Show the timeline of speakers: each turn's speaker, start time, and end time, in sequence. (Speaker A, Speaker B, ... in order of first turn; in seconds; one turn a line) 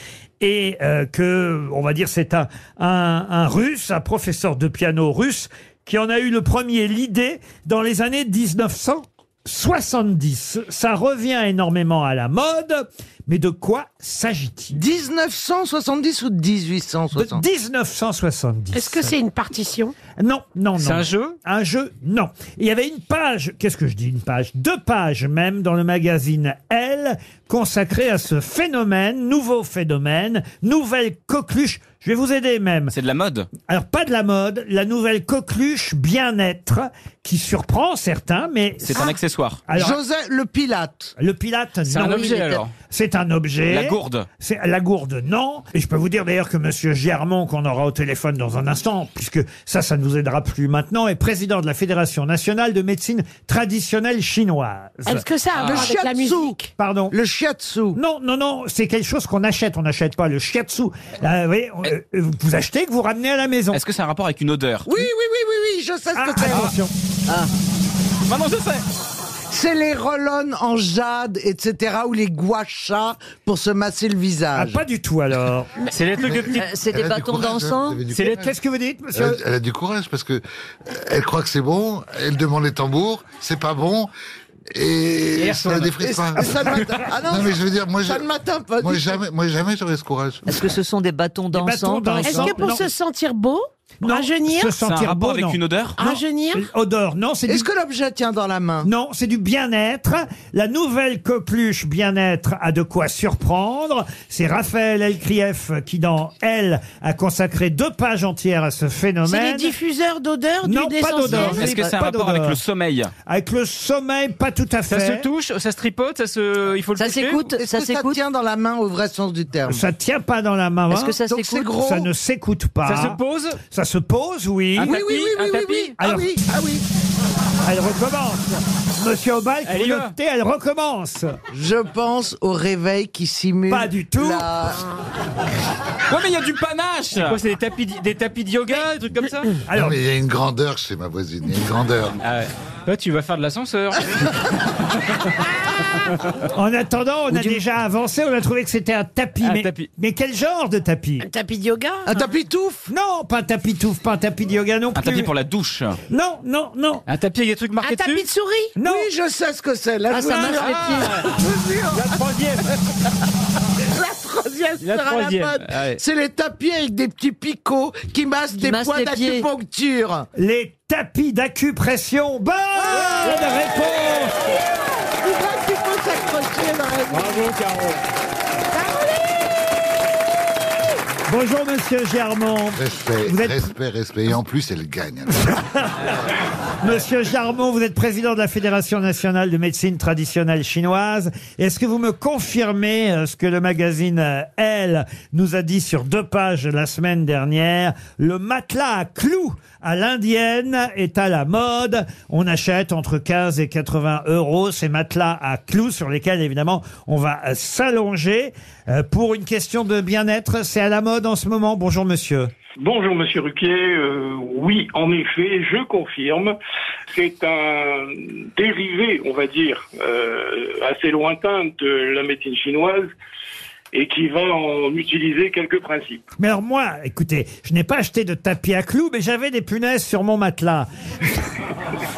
Speaker A: 0.4-14.8
Speaker B: 14.7-17.4
Speaker A: 17.1-19.1
Speaker C: 18.7-19.9
Speaker A: 20.2-32.9
Speaker D: 20.9-21.4
Speaker E: 32.9-33.5
Speaker A: 33.6-39.1
Speaker E: 38.8-39.6
Speaker A: 39.7-40.0
Speaker B: 39.7-41.1
Speaker A: 41.2-55.2
Speaker E: 41.9-42.7
Speaker F: 42.2-42.6
Speaker E: 43.7-44.3
Speaker C: 55.0-56.7
Speaker E: 55.5-55.9
Speaker B: 55.6-56.6
Speaker A: 56.8-57.1
Speaker B: 57.1-58.0
Speaker A: 57.9-63.8
Speaker E: 63.7-64.9
Speaker B: 64.8-66.7
Speaker A: 66.1-66.9
Speaker E: 66.5-66.7
Speaker E: 68.3-68.8
Speaker B: 69.5-74.8
Speaker A: 74.5-75.7
Speaker D: 76.0-76.4
Speaker G: 76.2-78.5
Speaker F: 76.5-78.0
Speaker A: 78.3-79.4
Speaker G: 79.1-84.1
Speaker G: 84.7-90.7
Speaker B: 86.0-89.2
Speaker F: 90.6-92.4
Speaker A: 91.5-92.9
Speaker B: 92.2-92.5
Speaker C: 92.3-94.7
Speaker A: 94.0-97.7
Speaker E: 94.8-96.0
Speaker C: 96.0-96.7
Speaker B: 97.5-98.9
Speaker A: 98.8-109.7
Speaker C: 109.2-111.7
Speaker A: 110.6-112.6
Speaker E: 111.5-113.1
Speaker A: 113.2-115.3
Speaker D: 114.9-117.3
Speaker F: 117.0-118.2
Speaker C: 117.2-117.4
Speaker B: 117.5-119.8
Speaker A: 119.7-121.2
Speaker F: 121.0-121.7
Speaker B: 121.0-122.1
Speaker A: 121.8-125.0
Speaker D: 122.8-123.6
Speaker D: 124.8-125.9
Speaker B: 124.8-126.8
Speaker C: 125.0-125.9
Speaker A: 126.0-126.4
Speaker A: 127.6-131.4
Speaker D: 129.7-130.1
Speaker B: 131.5-134.8
Speaker A: 133.7-134.5
Speaker E: 136.1-137.4
Speaker D: 137.5-139.5
Speaker A: 139.6-140.0
Speaker G: 139.7-142.2
Speaker D: 142.3-144.0
Speaker A: 146.5-151.2
Speaker E: 147.3-147.6
Speaker D: 149.4-149.9
Speaker C: 151.2-152.2
Speaker B: 152.1-152.9
Speaker A: 152.9-155.3
Speaker E: 154.9-156.0
Speaker A: 156.1-157.0
Speaker D: 157.1-158.2
Speaker C: 157.8-158.8
Speaker A: 158.8-159.1
Speaker B: 158.8-162.6
Speaker F: 160.1-161.1
Speaker D: 160.6-161.1
Speaker C: 161.9-162.2
Speaker D: 161.9-162.6
Speaker B: 163.8-170.3
Speaker D: 164.8-165.9
Speaker C: 164.9-165.6
Speaker F: 168.7-169.4
Speaker A: 170.3-174.6
Speaker B: 172.8-173.7
Speaker B: 174.5-177.5
Speaker C: 178.7-179.4
Speaker A: 181.3-183.7
Speaker G: 182.8-185.4
Speaker A: 185.4-186.1
Speaker A: 186.8-212.5
Speaker H: 212.8-216.5
Speaker H: 217.1-223.1
Speaker H: 223.9-226.2
Speaker A: 226.4-231.6